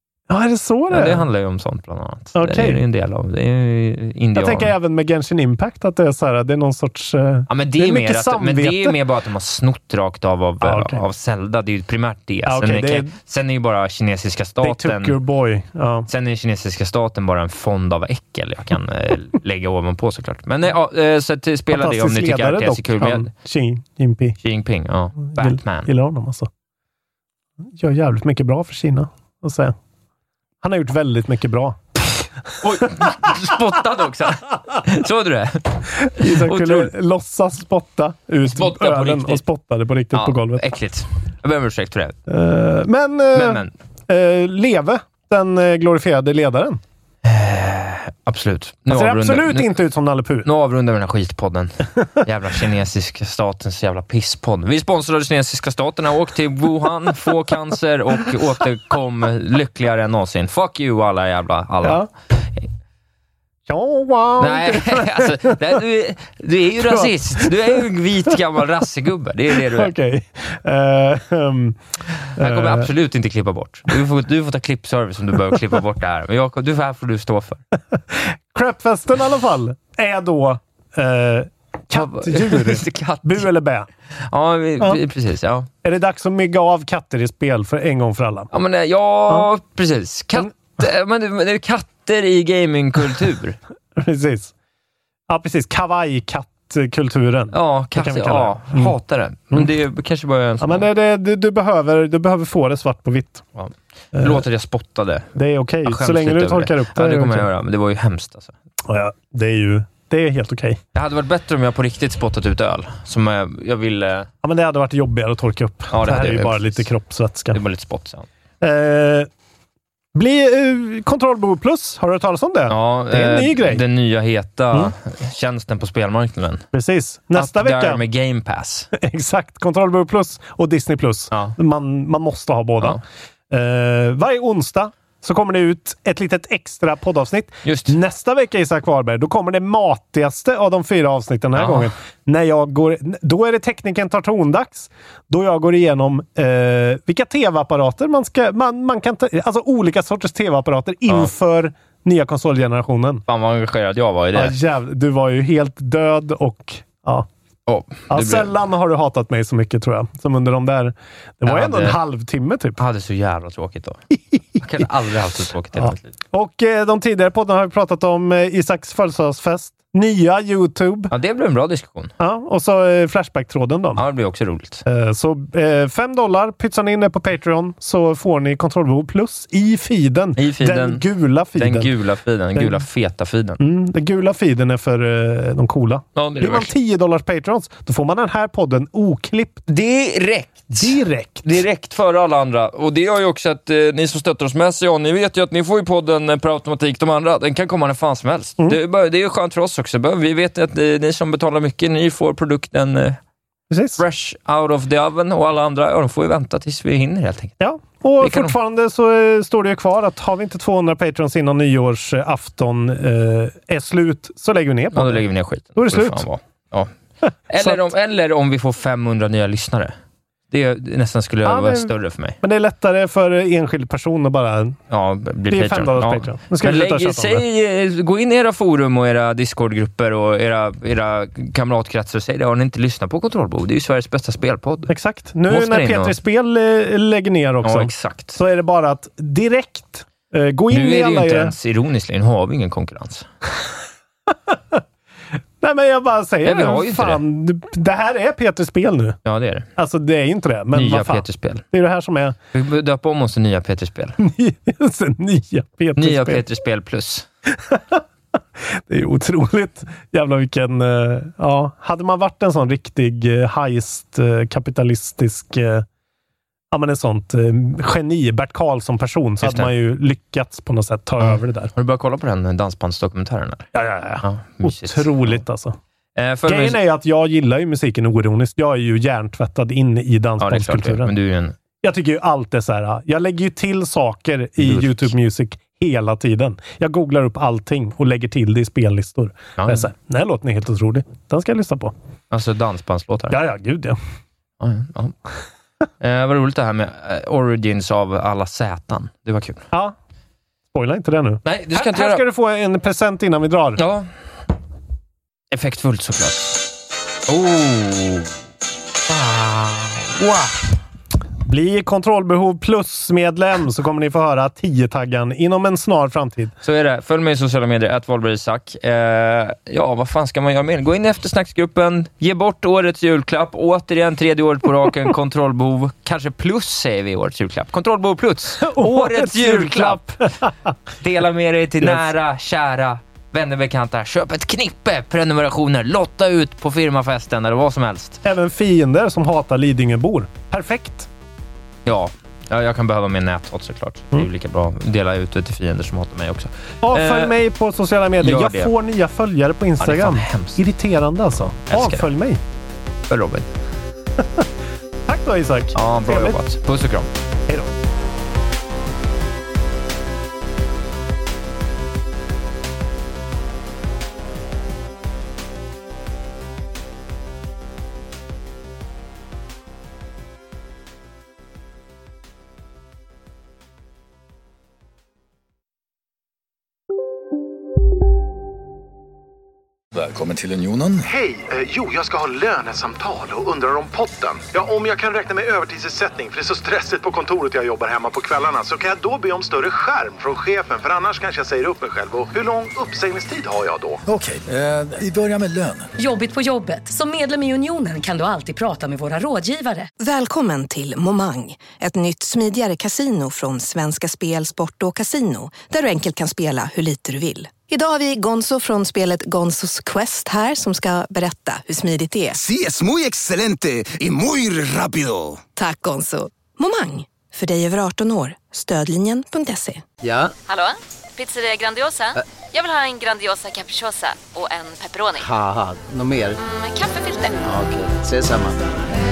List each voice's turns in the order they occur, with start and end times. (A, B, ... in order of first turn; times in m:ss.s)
0:00.3-0:01.2 A
0:00.9-0:04.7 B
0:02.3-0:02.8 A
0:04.3-0:09.0 A
0:07.5-0:15.2 B
0:10.6-0:11.0 A
0:12.4-0:13.1 A
0:14.6-0:16.1 A
0:16.1-0:23.3 B
0:21.7-0:24.4 A
0:24.4-0:25.9 B
0:25.3-0:26.5 A
0:27.6-0:29.7 A
0:30.6-0:31.9 A
0:32.6-0:36.9 B
0:32.8-0:33.5 A
0:36.0-0:40.6 A
0:38.4-0:39.4 B
0:40.1-0:42.2 B
0:42.3-0:46.8 A
0:43.3-0:43.7 B
0:47.2-0:49.7 B
0:48.9-0:50.5 A
0:50.4-1:02.0 B
1:01.8-1:02.1 A
1:03.7-1:05.8 A
1:04.4-1:09.9 B
1:06.8-1:07.8 A
1:09.5-1:11.8 A
1:12.4-1:12.9 A
1:12.4-1:17.6 B
1:18.1-1:23.9 A
1:21.9-1:23.5 B
1:24.3-1:25.7 B
1:25.8-1:28.5 A
1:28.5-1:33.6 B
1:34.0-1:34.5 A
1:35.3-1:38.9 A
1:37.5-1:40.9 B
1:40.6-1:43.4 A
1:43.5-1:48.5 B
1:44.1-1:44.4 A
1:45.3-1:47.5 A
1:48.9-1:50.8 A
1:50.9-1:54.3 B
1:54.4-1:57.6 A
1:55.9-1:56.9 B
1:57.5-1:58.2 B
1:58.6-1:59.3 A
2:00.1-2:03.8 A
2:02.7-2:06.6 B
2:06.7-2:08.0 A
2:07.3-2:08.9 B
2:08.9-2:33.2 A
2:17.6-2:18.0 B
2:21.5-2:21.9 B
2:33.3-2:34.6 B
2:34.3-2:37.3 A
2:37.7-2:38.5 B
2:38.1-2:42.8 A
2:41.4-2:42.0 B
2:42.8-2:44.0 B
2:44.6-2:46.1 B
2:45.8-2:51.1 A
2:51.1-2:52.1 B
2:52.2-2:54.0 A
2:54.0-2:54.8 B
2:54.8-3:01.9 A
3:00.4-3:01.0 B
3:01.6-3:03.6 B
3:02.6-3:02.8 A
3:03.6-3:09.6 A
3:06.1-3:06.7 B
3:09.7-3:23.2 B
3:10.7-3:11.5 A
3:23.7-3:24.0 A
3:24.0-3:27.6 B
3:27.6-3:36.2 A
3:28.2-3:28.5 B
3:34.9-3:36.9 B
3:37.5-3:39.9 B
3:37.5-3:37.9 A
3:40.5-3:42.4 B
3:41.4-3:44.8 A
3:44.9-3:54.9 B
3:45.5-3:47.4 A
3:54.9-4:01.5 A
3:55.5-3:56.2 B
3:57.6-3:58.4 B
4:00.7-4:03.3 B
4:04.3-4:04.8 A
4:05.6-4:09.2 A
4:06.4-4:07.2 B
4:09.2-4:09.7 B
4:09.8-4:12.4 A
4:10.7-4:11.6 B
4:12.5-4:14.2 B
4:14.2-4:16.4 A
4:16.0-4:17.2 B
4:17.5-4:18.0 A
4:18.6-4:25.8 A
4:26.7-4:31.7 A
4:29.4-4:29.7 B
4:31.2-4:33.7 B
4:33.7-4:35.8 A
4:34.2-4:35.4 B
4:36.2-4:36.8 B
4:36.5-4:41.1 A
4:40.4-4:41.6 B
4:41.8-4:51.9 A
4:44.6-4:45.1 B
4:49.6-4:49.9 B
4:52.3-4:53.4 B
4:53.3-4:54.0 A
4:54.6-4:55.2 B
4:56.0-4:59.7 B
5:00.7-5:03.8 A
5:01.4-5:02.2 B
5:03.8-5:04.1 B
5:05.5-5:06.7 B
5:07.3-5:08.3 B
5:09.1-5:10.6 B
5:11.4-5:16.5 A
5:16.6-5:30.1 B
5:28.6-5:30.7 A
5:31.0-5:38.2 B
5:38.2-5:41.1 A
5:41.8-5:47.3 B
5:46.8-5:52.4 A
5:48.2-5:48.7 B
5:49.8-5:50.6 B
5:51.6-5:52.1 B
5:53.1-5:53.5 B
5:54.2-5:54.5 A
5:55.1-5:56.4 A
5:55.7-5:57.1 B
5:57.5-5:57.7 A
6:19.9-6:21.1 C
6:21.1-6:27.5 A
6:21.2-6:33.9 D
6:29.0-6:29.8 A
6:31.7-6:32.8 A
6:34.0-6:35.9 C
6:36.0-6:39.9 E
6:40.0-6:52.4 F
6:52.3-6:55.4 G
6:55.6-6:59.8 F
7:00.0-7:00.3 H
7:00.4-7:05.3 I
7:05.2-7:06.4 H
7:06.4-7:07.5 I
7:07.4-7:08.6 H